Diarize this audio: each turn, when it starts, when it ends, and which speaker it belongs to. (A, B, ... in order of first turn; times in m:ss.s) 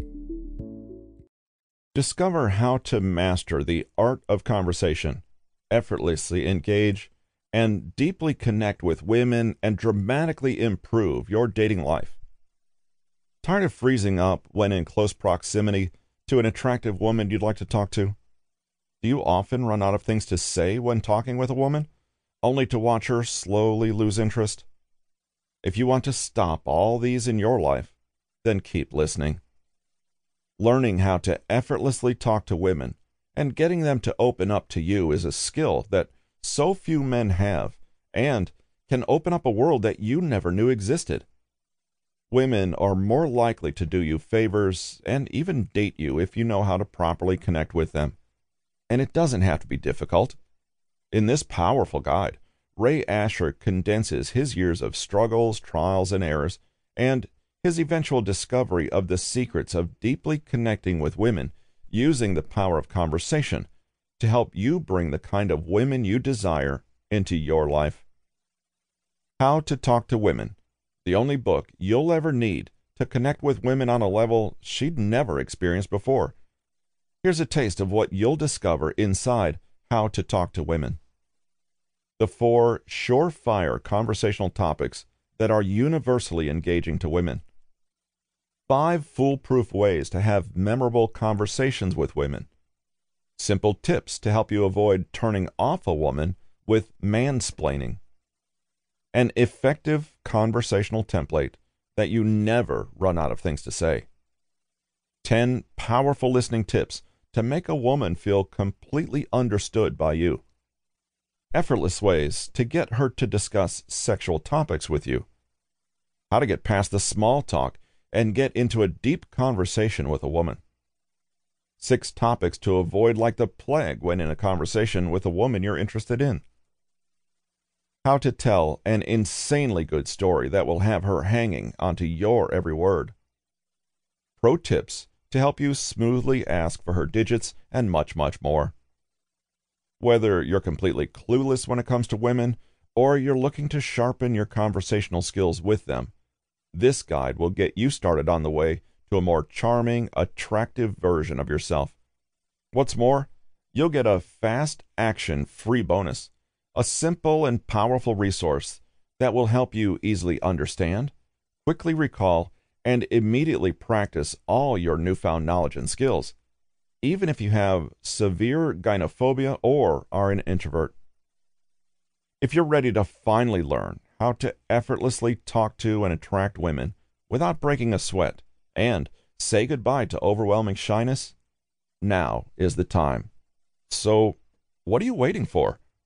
0:01.9-0:12.2 A
0:13.4-0:18.2 A
0:19.0-0:21.9 A
0:22.4-0:24.7 A
0:25.6-0:29.4 A
0:30.6-0:41.3 A
0:42.3-0:48.2 A
0:48.9-0:50.4 A
0:51.1-1:03.7 A
1:04.2-1:08.0 A
1:09.4-1:16.3 A
1:17.2-1:21.0 A
1:22.2-1:27.4 A
1:28.7-1:32.5 A
1:33.4-1:38.0 A
1:39.1-1:44.1 A
1:45.2-1:50.4 A
1:51.5-1:55.3 A
1:56.3-2:00.6 A
2:01.8-2:06.4 A
2:08.0-2:13.1 A
2:14.4-2:18.7 A
2:20.0-2:26.1 A
2:26.7-2:32.0 A
2:32.7-2:41.1 A
2:41.6-2:46.4 A
2:47.0-2:51.0 A
2:52.4-3:01.4 A
3:02.0-3:03.3 A
3:03.9-3:05.8 A